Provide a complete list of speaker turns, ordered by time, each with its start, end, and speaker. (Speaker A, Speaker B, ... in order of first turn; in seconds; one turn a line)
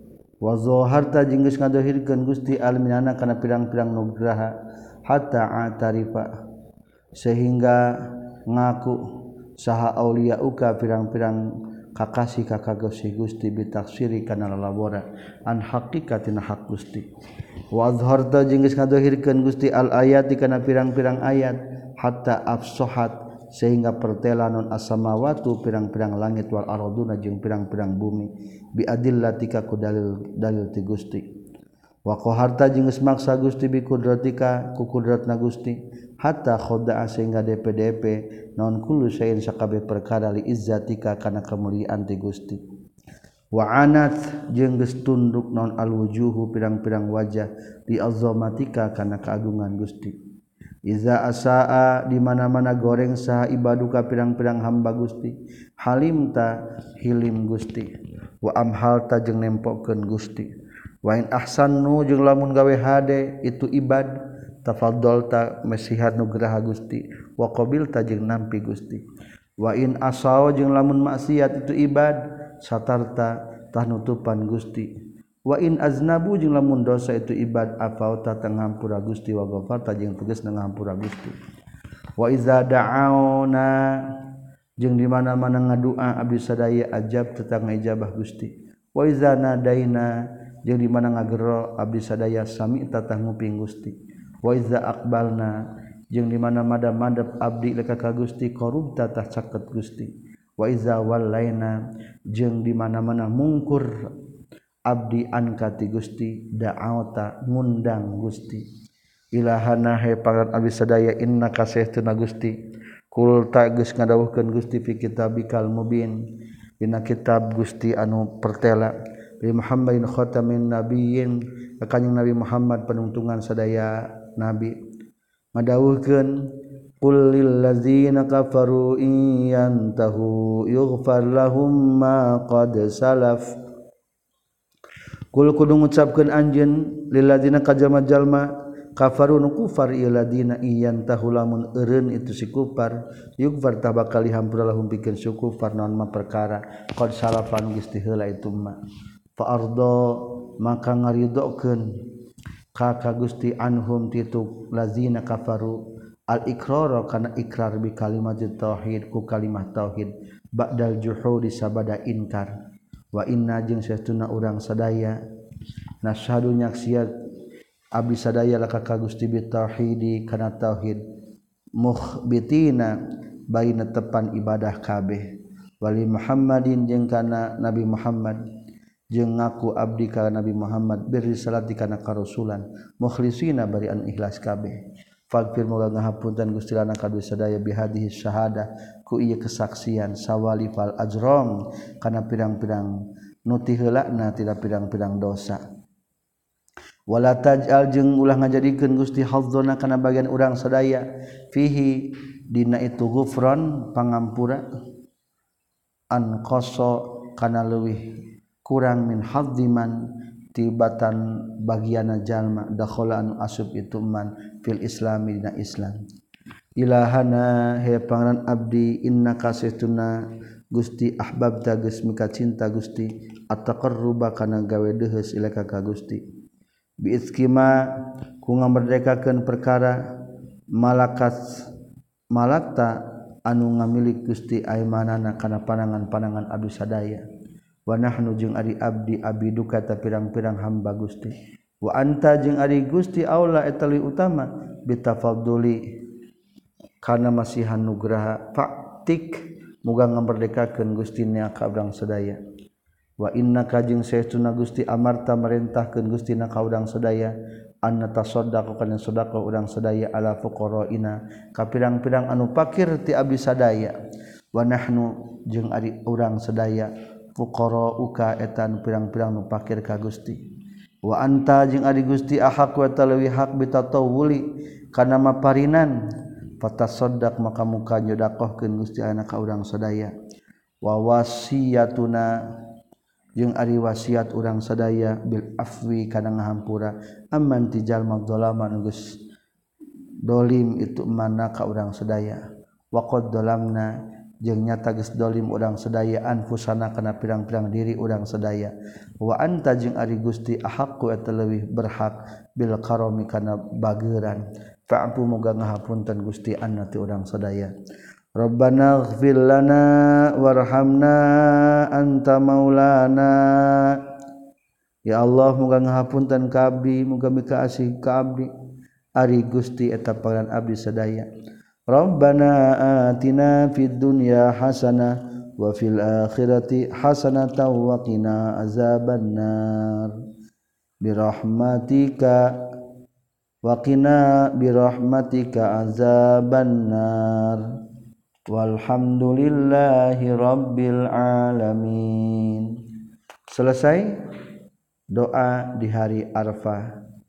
Speaker A: 0.4-4.5
Speaker A: 5.1-6.3
Speaker A: 7.2-9.0
Speaker A: 9.6-11.4
Speaker A: 11.9-17.0
Speaker A: 17.7-31.2
Speaker A: 32.1-42.6
Speaker A: 43.5-50.1
Speaker A: 50.9-57.9
Speaker A: 58.4-60.5
Speaker A: 61.0-64.1
Speaker A: 64.6-69.0
Speaker A: 69.6-74.9
Speaker A: 75.5-81.3
Speaker A: 82.2-84.1
Speaker A: 84.8-90.1
Speaker A: 90.6-95.5
Speaker A: 96.1-101.8
Speaker A: 102.3-103.9
Speaker A: 104.9-108.6
Speaker A: 109.3-112.5
Speaker A: 113.1-116.2
Speaker A: 116.8-124.7
Speaker A: 125.5-126.5
Speaker A: 127.0-133.4
Speaker A: 135.3-148.8
Speaker A: 149.4-151.9
Speaker A: 152.8-162.5
Speaker A: 163.1-165.2
Speaker A: 166.0-167.1
Speaker A: 167.9-171.0
Speaker A: 171.8-172.9
Speaker A: 173.5-175.2
Speaker A: 175.8-178.4
Speaker A: 179.1-184.8
Speaker A: 185.3-192.9
Speaker A: 193.5-195.6
Speaker A: 197.1-204.6
Speaker A: 206.1-208.1
Speaker A: 208.6-209.9
Speaker A: 210.5-216.0
Speaker A: 216.8-220.2
Speaker A: 220.7-226.2
Speaker A: 227.0-227.8
Speaker A: 228.4-230.0
Speaker A: 230.8-231.7
Speaker A: 232.3-232.9
Speaker A: 233.5-237.2
Speaker A: 237.9-245.8
Speaker A: 247.0-252.4
Speaker A: 253.2-257.3
Speaker A: 257.8-263.9
Speaker A: 264.5-270.4
Speaker A: 271.0-275.9
Speaker A: 276.6-280.1
Speaker A: 280.8-282.3
Speaker A: 283.4-289.1
Speaker A: 290.2-292.4
Speaker A: 292.9-293.9
Speaker A: 294.4-307.7
Speaker A: 308.4-314.0
Speaker A: 315.1-318.5
Speaker A: 319.2-321.3
Speaker A: 321.9-330.2
Speaker A: 331.0-332.5
Speaker A: 333.6-337.7
Speaker A: 338.5-342.8
Speaker A: 343.5-344.1
Speaker A: 345.1-346.9